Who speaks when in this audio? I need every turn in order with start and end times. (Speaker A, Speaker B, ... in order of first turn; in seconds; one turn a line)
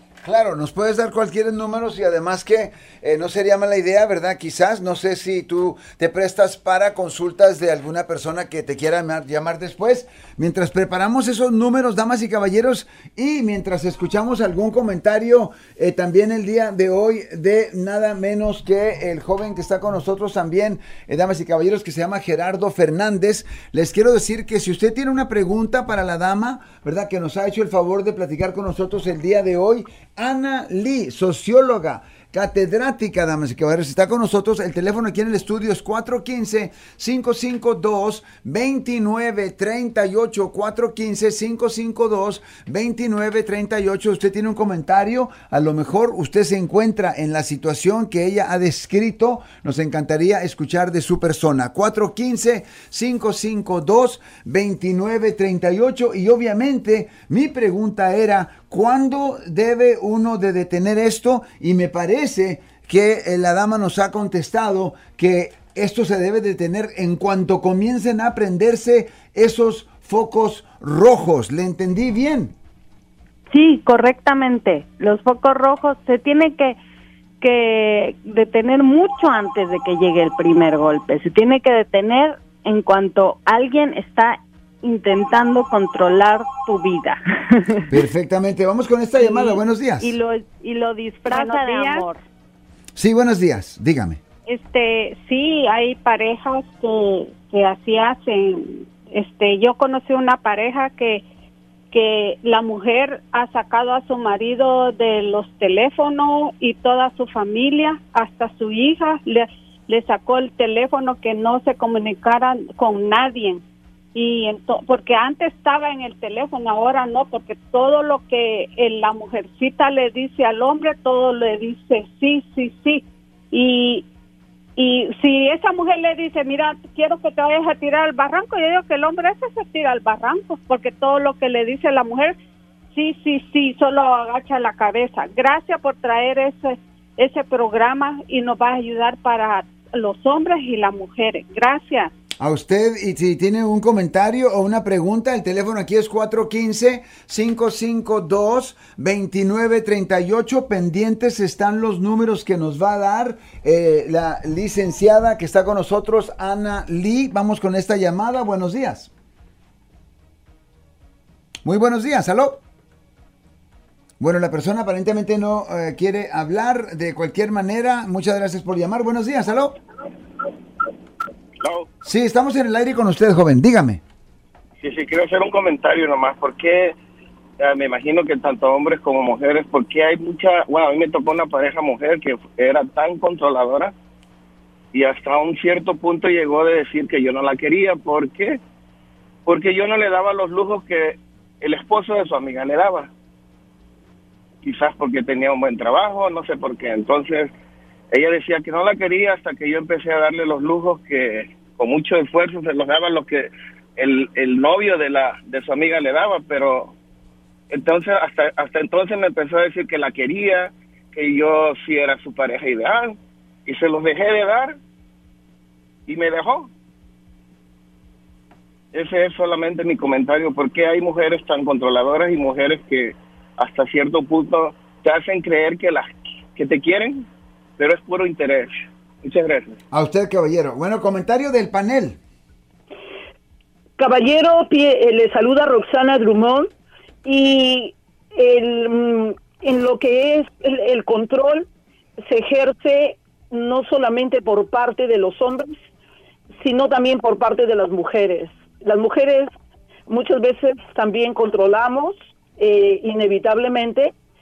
Speaker A: 0.2-72.5
Speaker B: 73.5-76.8
Speaker B: 77.4-87.9
Speaker A: 87.9-90.2
Speaker B: 89.2-92.2
Speaker C: 91.3-92.1
Speaker A: 93.0-94.2
Speaker C: 94.5-101.2
Speaker C: 101.9-113.6
Speaker C: 114.2-124.1
Speaker C: 124.8-132.4
Speaker C: 132.9-142.1
Speaker A: 142.4-159.1
Speaker A: 161.6-162.6
Speaker A: 164.2-169.8
Speaker D: 171.6-171.9
Speaker A: 172.0-174.0
Speaker D: 174.8-177.0
Speaker D: 177.6-183.9
Speaker D: 184.9-188.6
Speaker D: 189.5-193.1
Speaker D: 194.6-197.5
Speaker D: 198.1-206.9
Speaker D: 207.7-214.8
Speaker D: 216.1-216.7
Speaker D: 218.9-227.3
Speaker D: 227.8-229.8
Speaker A: 229.9-232.2
Speaker E: 234.0-236.7
Speaker E: 237.2-241.7
Speaker E: 242.2-245.8
Speaker E: 246.6-249.5
Speaker E: 250.1-254.1